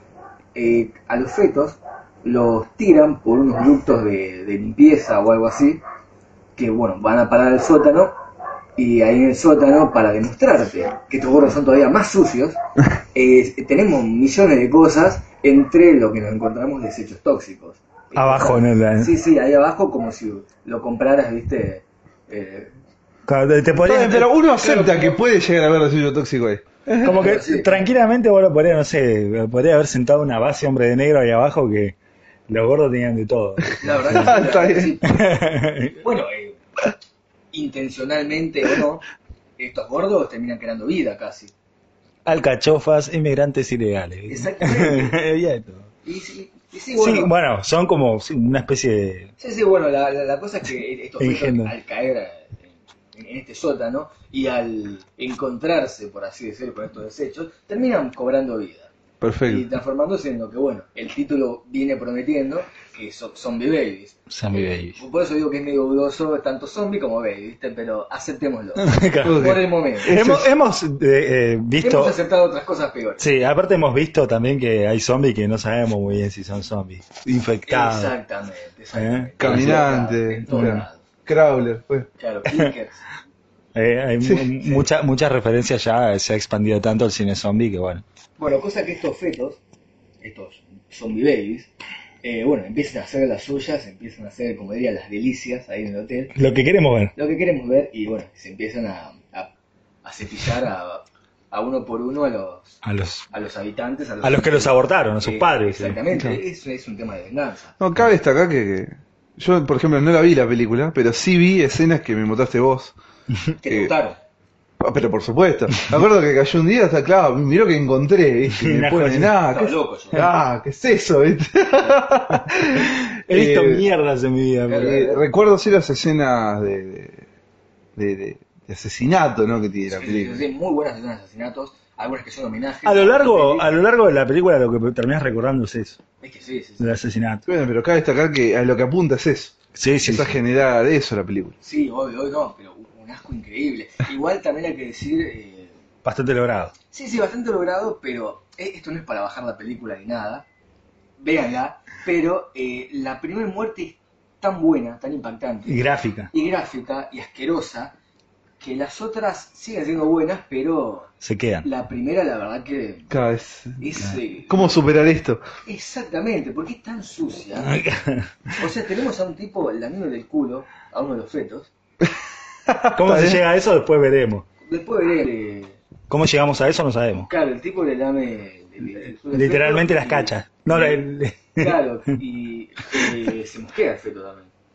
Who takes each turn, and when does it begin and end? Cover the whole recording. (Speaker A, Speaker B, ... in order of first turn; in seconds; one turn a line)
Speaker A: 0.5-5.8
Speaker A: 6.6-8.1
Speaker A: 8.8-12.6
Speaker A: 13.1-22.7
Speaker B: 18.1-19.1
Speaker B: 23.3-24.3
Speaker C: 23.8-27.4
Speaker A: 24.5-25.2
Speaker B: 27.0-31.9
Speaker A: 27.1-27.9
Speaker B: 32.5-34.3
Speaker A: 33.8-35.4
Speaker C: 34.0-34.9
Speaker B: 35.0-36.0
Speaker A: 36.0-36.6
Speaker A: 37.5-39.0
Speaker A: 39.6-41.5
Speaker B: 42.2-45.9
Speaker A: 44.3-45.2
Speaker A: 46.0-47.3
Speaker B: 47.0-49.3
Speaker A: 49.4-58.9
Speaker B: 51.2-51.7
Speaker C: 59.2-59.6
Speaker A: 59.5-70.2
Speaker B: 64.3-65.0
Speaker B: 68.8-72.2
Speaker C: 69.2-70.5
Speaker A: 71.8-73.2
Speaker B: 73.2-78.1
Speaker A: 77.7-81.0
Speaker B: 78.9-79.8
Speaker C: 79.4-82.1
Speaker B: 80.5-80.8
Speaker A: 82.2-83.0
Speaker B: 83.7-88.0
Speaker C: 84.2-84.8
Speaker A: 88.4-89.6
Speaker A: 90.2-91.7
Speaker A: 92.2-96.3
Speaker B: 96.3-97.1
Speaker A: 97.2-99.5
Speaker A: 100.0-102.8
Speaker B: 102.8-103.3
Speaker A: 103.3-107.8
Speaker B: 104.2-106.0
Speaker C: 106.1-106.4
Speaker C: 107.8-113.0
Speaker A: 113.6-114.2
Speaker C: 113.7-113.9
Speaker C: 114.8-123.8
Speaker B: 118.5-119.3
Speaker A: 119.5-120.2
Speaker B: 123.2-125.0
Speaker A: 124.7-125.2
Speaker C: 124.7-127.2
Speaker C: 128.0-130.4
Speaker A: 129.9-133.7
Speaker B: 132.8-136.0
Speaker A: 136.2-137.0
Speaker B: 136.8-137.5
Speaker C: 137.5-141.5
Speaker B: 139.7-140.4
Speaker A: 141.6-145.7
Speaker B: 146.0-146.7
Speaker A: 146.9-150.4
Speaker A: 151.2-155.8
Speaker B: 155.7-156.3
Speaker A: 156.3-157.9
Speaker A: 158.6-161.1
Speaker B: 161.2-161.7
Speaker A: 161.6-163.1
Speaker C: 163.1-165.4
Speaker A: 163.8-164.7
Speaker A: 165.6-167.8
Speaker B: 167.6-168.3
Speaker A: 168.5-171.7
Speaker C: 172.7-173.4
Speaker B: 172.9-174.4
Speaker A: 174.7-175.8
Speaker B: 176.1-177.3
Speaker A: 177.1-181.0
Speaker B: 179.3-181.8
Speaker A: 181.6-184.5